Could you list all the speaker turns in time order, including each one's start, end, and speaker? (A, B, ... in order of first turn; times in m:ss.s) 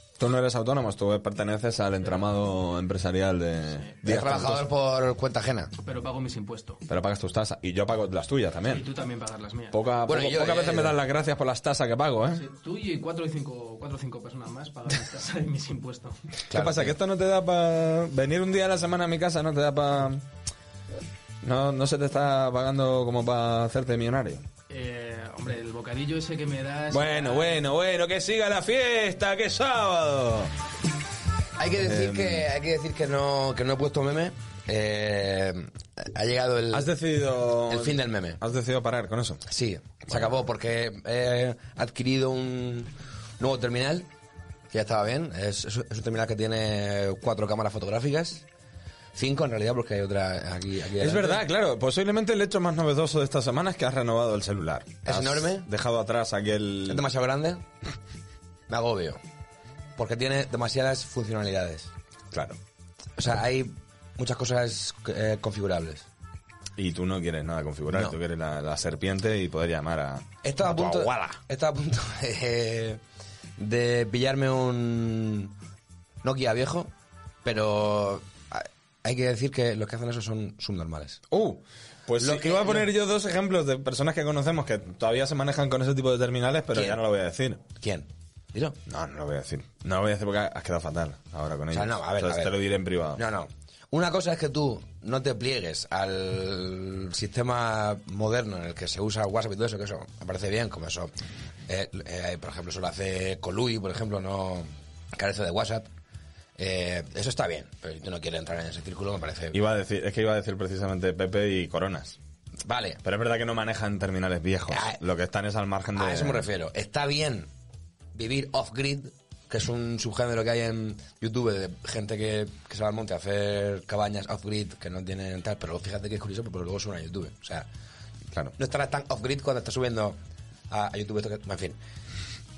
0:00.2-0:04.7 A
0:04.0-0:05.7 B
0:05.8-0:06.8 C
0:06.9-0:08.9 A
0:08.7-0:09.8 C
0:09.7-0:12.4 A
0:10.1-0:11.0 B
0:12.3-0:16.2 C
0:16.5-0:17.0 B
0:16.5-0:20.2 A
0:21.4-0:24.4 A
0:24.7-0:27.6 C
0:26.9-0:30.5 A
0:31.6-0:36.9 B
0:31.8-0:32.5 A
0:36.7-0:39.4 A
0:37.7-0:38.4 B
0:39.5-0:44.1 B
0:44.7-0:48.4 B
0:49.2-0:51.4 B
0:51.0-0:57.1 A
0:55.0-0:55.7 B
0:56.9-0:57.6 B
0:58.7-0:59.2 B
1:00.0-1:01.9 B
1:02.3-1:02.6 A
1:03.2-1:06.1 B
1:06.8-1:11.4 A
1:07.9-1:08.2 B
1:10.4-1:13.0 B
1:13.6-1:15.5 B
1:16.2-1:16.9 B
1:17.4-1:21.2 B
1:21.3-1:27.6 A
1:22.2-1:22.9 B
1:26.7-1:27.0 B
1:27.8-1:28.8 B
1:28.9-1:33.2 A
1:31.7-1:32.6 B
1:33.2-1:41.1 B
1:41.7-1:45.9 B
1:46.6-1:49.6 B
1:49.5-1:52.2 A
1:52.6-1:53.0 B
1:53.0-1:56.5 A
1:54.7-1:55.0 B
1:56.0-1:57.5 B
1:58.1-2:07.7 B
2:08.5-2:10.2 B
2:10.7-2:11.8 B